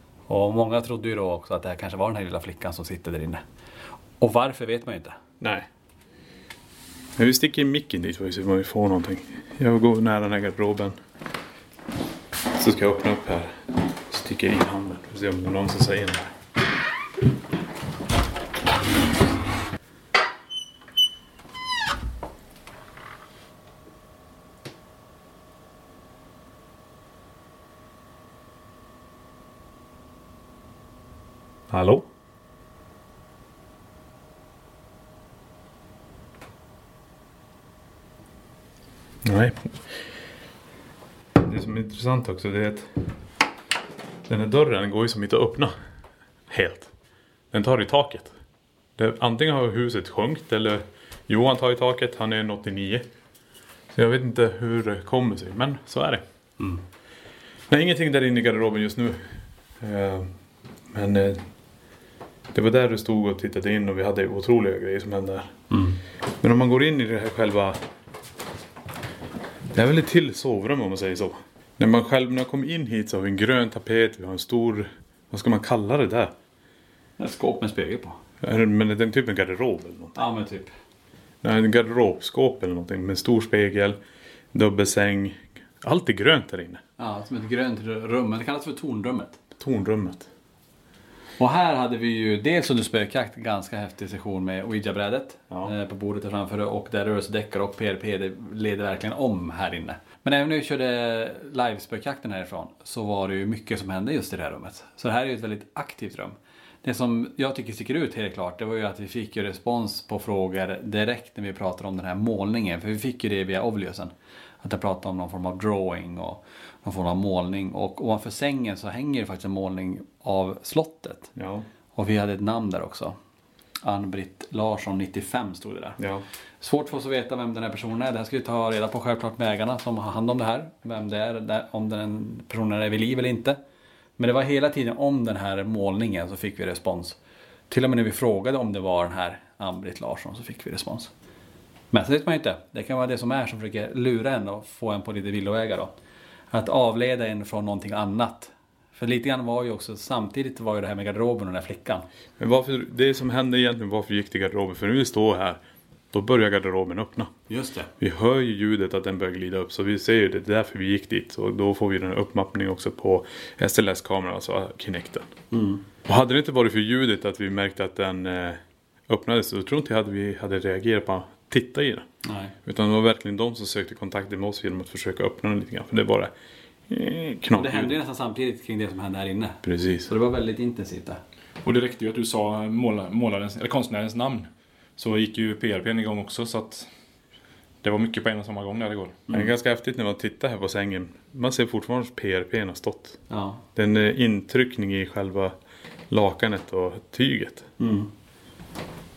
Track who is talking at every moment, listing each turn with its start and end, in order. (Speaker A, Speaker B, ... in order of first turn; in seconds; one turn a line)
Speaker A: 0.3-3.4
Speaker A: 4.2-5.2
Speaker B: 5.4-5.7
Speaker B: 7.2-11.0
Speaker B: 12.5-16.3
Speaker B: 31.7-32.1
Speaker B: 39.2-40.0
Speaker B: 41.4-42.9
Speaker B: 44.3-45.7
Speaker B: 46.5-46.9
Speaker B: 47.5-48.3
Speaker B: 49.0-53.0
Speaker B: 53.9-56.2
Speaker B: 57.7-60.3
Speaker B: 60.9-61.5
Speaker B: 62.5-65.6
Speaker A: 65.7-66.0
Speaker B: 66.4-67.8
Speaker B: 69.7-76.3
Speaker A: 77.2-78.2
Speaker B: 78.4-80.2
Speaker A: 80.1-80.7
Speaker B: 81.4-84.0
Speaker B: 84.5-86.8
Speaker A: 87.0-89.4
Speaker B: 89.6-90.3
Speaker A: 91.4-121.3
Speaker B: 121.3-121.7
Speaker A: 121.9-123.2
Speaker A: 123.8-126.0
Speaker B: 126.0-126.2
Speaker A: 126.6-133.6
Speaker A: 134.2-137.2
Speaker A: 137.7-141.1
Speaker A: 141.9-145.9
Speaker A: 146.5-152.1
Speaker B: 152.4-155.6
Speaker B: 156.1-157.3
Speaker A: 157.5-157.9
Speaker B: 158.0-165.3
Speaker A: 165.5-165.8
Speaker B: 166.1-172.1
Speaker A: 172.2-172.5
Speaker B: 172.6-176.3
Speaker B: 176.9-177.9
Speaker A: 177.5-181.2
Speaker B: 179.6-180.1
Speaker C: 181.6-186.9
Speaker C: 187.8-189.2
Speaker B: 189.3-193.2
Speaker A: 193.3-193.6
Speaker B: 193.7-195.5
Speaker B: 196.1-197.7
Speaker A: 197.8-198.1